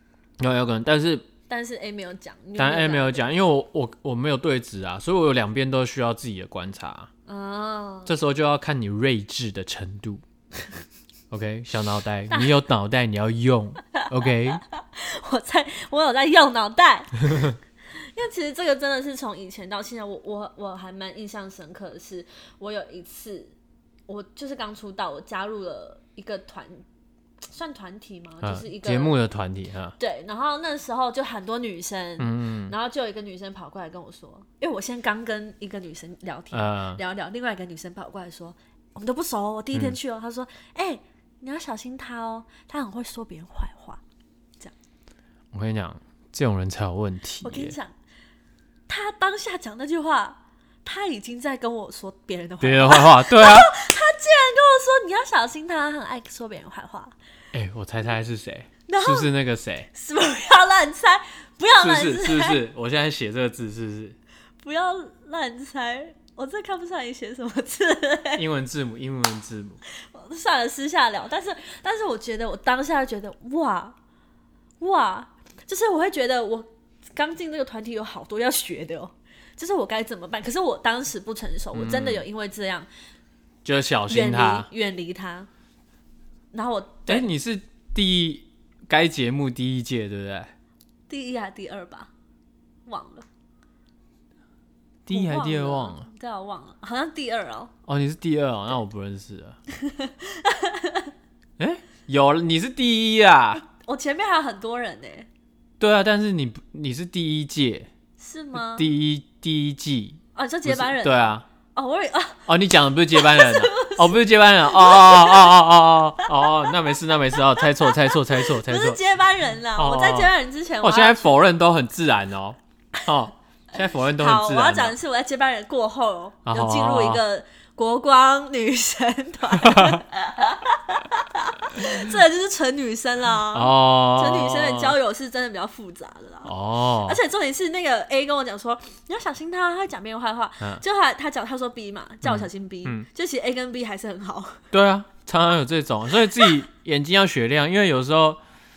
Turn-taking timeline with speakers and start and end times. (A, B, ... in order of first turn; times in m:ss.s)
0:00.4-0:01.3 A
0:01.5-0:03.2 B
0:02.6-0:07.1 A
0:07.3-0:08.1 B
0:08.1-0:10.2 A
0:11.3-0:14.6 A
0:14.7-0:23.5 B
0:24.1-0:26.8 B
0:27.4-0:29.1 B
0:28.4-0:30.0 A
0:30.0-0:44.0 B
0:32.2-0:32.7 A
0:36.5-0:37.0 A
0:39.7-0:40.0 A
0:45.5-0:47.8 A
0:47.4-0:47.9 B
0:48.9-0:57.1 B
0:52.6-0:53.7 A
0:57.5-0:59.9 A
0:58.9-0:59.3 B
0:59.9-1:02.6 B
1:01.8-1:04.2 A
1:04.6-1:08.4 B
1:08.4-1:09.8 A
1:10.1-1:14.0 B
1:14.8-1:22.9 B
1:21.7-1:22.2 A
1:23.6-1:24.7 A
1:24.1-1:25.5 B
1:26.5-1:27.3 B
1:27.1-1:30.5 A
1:31.1-1:32.1 B
1:32.9-1:33.3 B
1:35.1-1:36.0 A
1:35.1-1:37.7 B
1:37.9-1:39.6 A
1:39.8-1:41.1 B
1:41.6-1:43.6 A
1:43.7-1:45.3 B
1:45.8-1:47.9 A
1:48.2-1:48.9 B
1:48.6-1:51.4 A
1:50.4-1:52.5 B
1:52.5-1:59.0 A
1:53.1-1:56.5 B
1:57.4-2:01.4 B
1:59.8-2:05.0 A
2:04.1-2:24.7 B
2:06.4-2:07.2 A
2:09.6-2:10.0 A
2:11.8-2:12.1 A
2:13.5-2:15.0 A
2:16.4-2:17.2 A
2:22.2-2:23.1 A
2:24.7-2:28.4 A